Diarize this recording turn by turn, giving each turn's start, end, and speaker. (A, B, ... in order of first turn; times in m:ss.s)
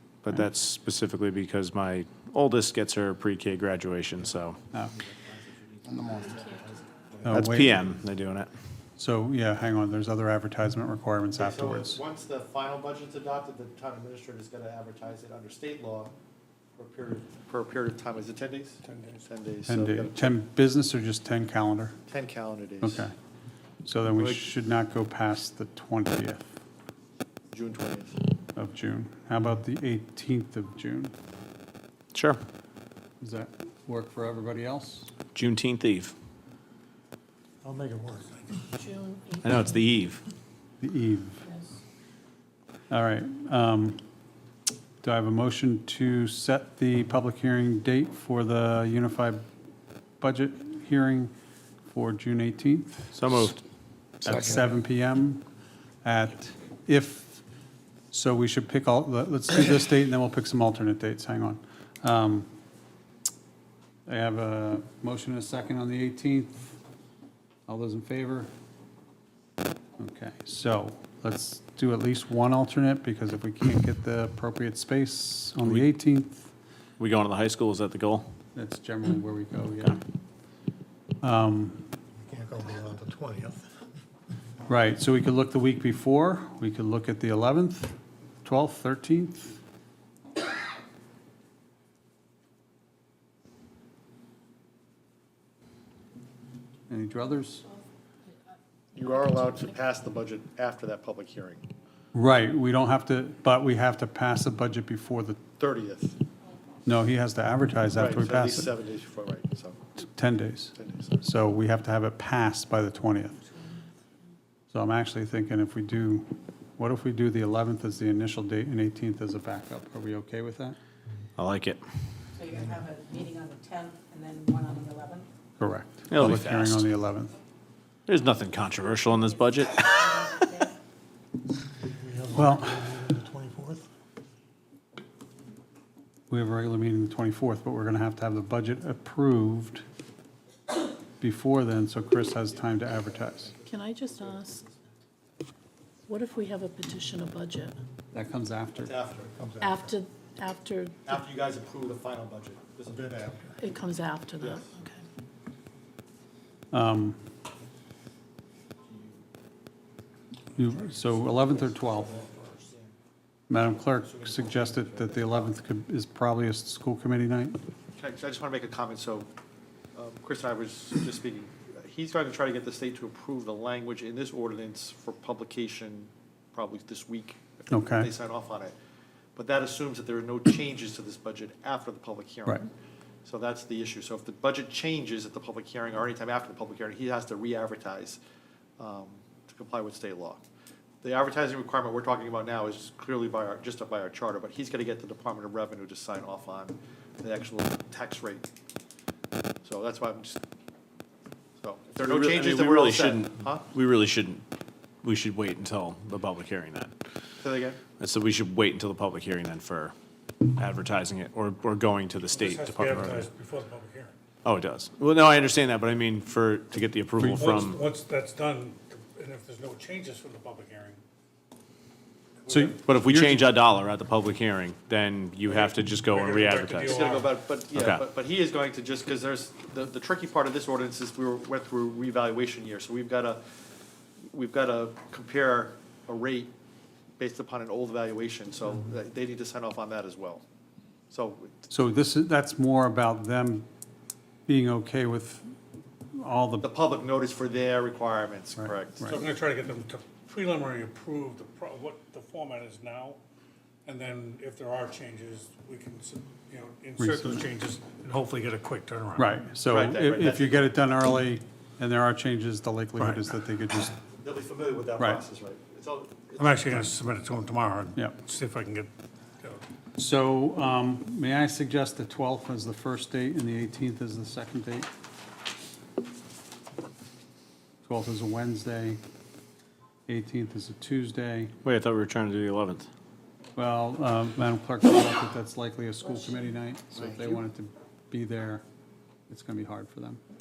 0:00.2-0:04.6 A
0:06.1-0:06.4 B
0:07.2-0:07.8 C
0:07.3-0:08.5 A
0:09.0-0:12.0 C
0:11.4-0:16.1 D
0:16.8-0:20.3 D
0:18.8-0:19.2 E
0:19.7-0:22.0 C
0:22.1-0:23.0 D
0:22.8-0:23.1 C
0:23.8-0:26.5 C
0:24.1-0:24.4 D
0:27.5-0:28.2 D
0:28.6-0:31.1 C
0:32.1-0:32.4 A
0:33.2-0:35.1 C
0:35.3-0:36.1 A
0:37.6-0:38.2 B
0:38.2-0:38.9 E
0:38.8-0:39.4 F
0:39.4-0:40.2 A
0:40.8-0:41.4 C
0:42.9-0:44.0 C
0:45.0-0:49.4 C
0:50.2-0:51.3 C
0:51.9-0:53.5 C
0:53.1-0:53.6 A
0:54.2-0:55.4 C
0:56.0-0:57.4 C
0:58.1-1:02.5 C
1:04.0-1:06.8 C
1:07.7-1:08.5 C
1:10.0-1:16.5 C
1:15.6-1:15.9 A
1:17.0-1:18.3 A
1:18.5-1:20.0 C
1:21.2-1:21.9 C
1:22.2-1:23.7 B
1:24.7-1:29.6 C
1:36.9-1:37.6 C
1:38.9-1:41.6 D
1:42.1-1:45.4 C
1:45.6-1:46.2 D
1:46.8-1:48.7 C
1:47.9-1:49.8 D
1:50.0-1:53.4 C
1:50.7-1:51.2 D
1:54.7-2:00.8 C
2:01.4-2:01.8 A
2:02.3-2:05.3 G
2:05.6-2:07.3 C
2:06.1-2:06.9 A
2:08.1-2:10.4 A
2:09.6-2:10.7 G
2:11.9-2:13.9 B
2:12.3-2:12.9 C
2:16.3-2:19.8 C
2:21.2-2:23.5 C
2:23.3-2:24.7 D
2:23.7-2:24.4 F
2:24.0-2:24.3 E
2:26.1-2:27.7 F
2:28.1-2:29.0 C
2:28.8-2:29.5 D
2:29.4-2:29.9 B
2:29.6-2:30.4 E
2:29.6-2:30.9 F
2:31.0-2:33.4 D
2:33.0-2:33.6 B
2:33.6-2:34.4 E
2:33.7-2:34.4 F
2:34.4-2:34.7 D
2:36.7-2:37.2 C
2:38.8-2:39.2 D
2:40.6-2:42.2 C
2:40.6-2:42.9 D
2:43.5-2:47.6 C
2:43.9-2:45.5 D
2:48.0-2:49.3 D
2:49.9-2:58.7 D
2:57.7-2:58.1 C
2:59.4-3:02.7 D
3:03.2-3:08.2 D
3:08.8-3:10.4 D
3:11.0-3:18.5 D
3:19.6-3:20.4 D
3:21.6-3:23.6 D
3:22.0-3:24.4 A
3:25.0-3:27.0 A
3:27.4-3:27.8 D
3:27.9-3:33.3 A
3:32.3-3:34.2 E
3:34.4-3:37.8 A
3:37.2-3:41.0 E
3:42.4-3:42.7 E
3:42.5-3:43.5 C
3:42.8-3:46.9 A
3:45.5-3:47.3 E
3:46.8-3:53.4 D
3:47.7-3:48.0 A
3:54.3-3:56.5 D
3:57.2-4:00.4 D
4:01.1-4:01.5 D
4:01.7-4:03.7 C
4:04.5-4:05.5 C
4:06.1-4:06.7 C
4:06.6-4:09.2 D
4:09.0-4:13.2 E
4:13.8-4:19.2 E
4:17.0-4:17.4 C
4:19.2-4:23.9 C
4:19.6-4:20.7 D
4:24.0-4:26.9 D
4:26.4-4:29.6 E
4:30.0-4:34.9 C
4:37.8-4:39.0 C
4:40.1-4:41.5 C
4:41.6-4:42.9 A
4:43.6-4:48.6 C
4:49.3-4:50.2 C